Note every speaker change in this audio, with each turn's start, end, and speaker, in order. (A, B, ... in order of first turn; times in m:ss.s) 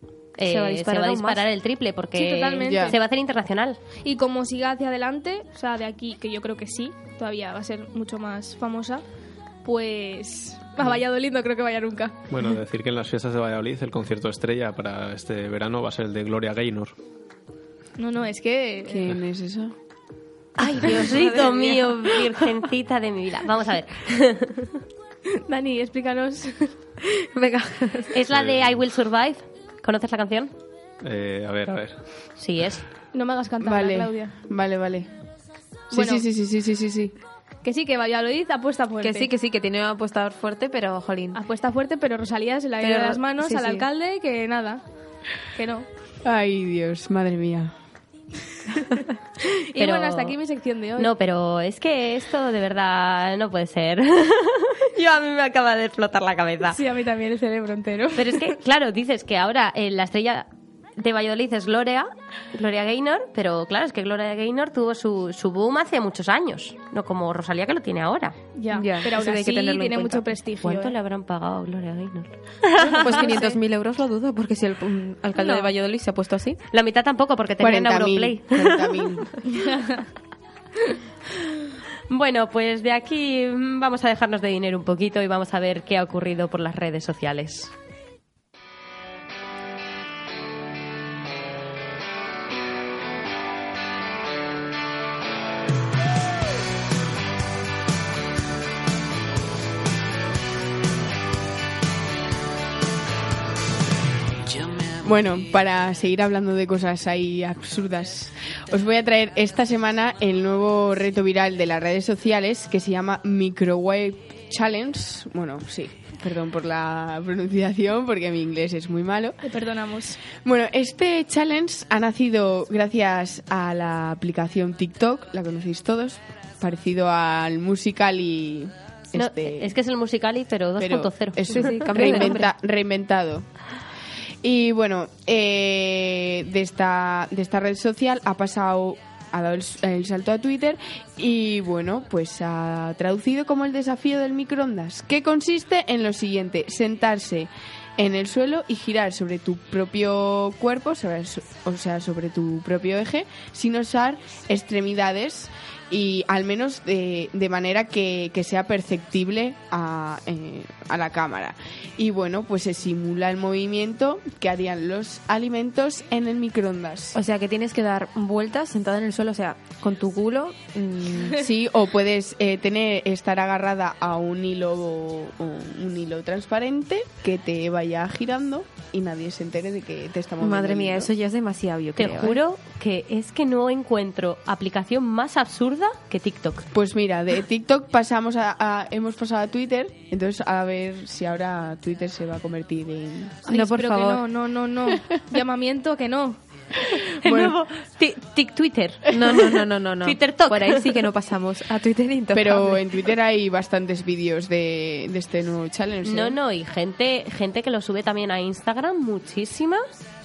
0:00.4-0:03.8 A
0:00.4-0:01.4 B
0:02.2-0:03.0 C
0:02.6-0:03.0 D
0:04.0-0:09.0 C
0:09.6-0:12.2 C
0:12.3-0:17.0 E
0:18.0-0:19.0 C
0:18.9-0:19.7 D
0:20.6-0:24.8 A
0:20.6-0:22.5 B
0:25.3-0:26.7 C
0:27.1-0:28.2 B
0:28.1-0:30.5 A
0:28.3-0:28.6 E
0:31.0-0:32.0 E
0:32.4-0:32.8 A
0:33.1-0:34.4 C
0:33.6-0:35.1 D
0:35.9-0:37.1 D
0:35.9-0:36.2 C
0:37.6-0:39.3 C
0:39.0-0:41.4 B
0:41.3-0:44.8 C
0:42.8-0:43.9 B
0:45.5-0:45.9 C
0:46.2-0:47.7 D
0:49.5-0:51.1 C
0:49.8-0:50.4 A
0:51.0-0:56.8 A
0:56.7-0:58.5 C
0:58.2-1:08.4 A
1:08.6-1:10.9 C
1:08.7-1:10.3 B
1:10.6-1:13.4 A
1:12.8-1:13.6 C
1:12.9-1:16.6 B
1:15.4-1:15.7 C
1:16.7-1:19.1 A
1:17.6-1:19.4 D
1:19.5-1:20.0 C
1:22.1-1:27.7 A
1:44.9-1:59.4 D
1:59.4-2:00.2 C
2:00.4-2:09.7 D
2:09.2-2:12.4 A
2:10.8-2:13.5 D
2:11.5-2:12.5 B
2:14.4-2:47.2 D
2:47.1-2:51.4 B
2:51.3-3:01.1 D
3:00.4-3:02.4 B
3:02.0-3:06.7 A
3:06.7-3:13.4 D
3:13.5-3:14.2 B
3:13.5-3:16.4 C
3:17.2-3:19.2 A
3:17.2-3:17.6 D
3:19.1-3:22.8 B
3:20.0-3:21.1 A
3:22.3-3:26.4 D
3:26.0-3:29.8 A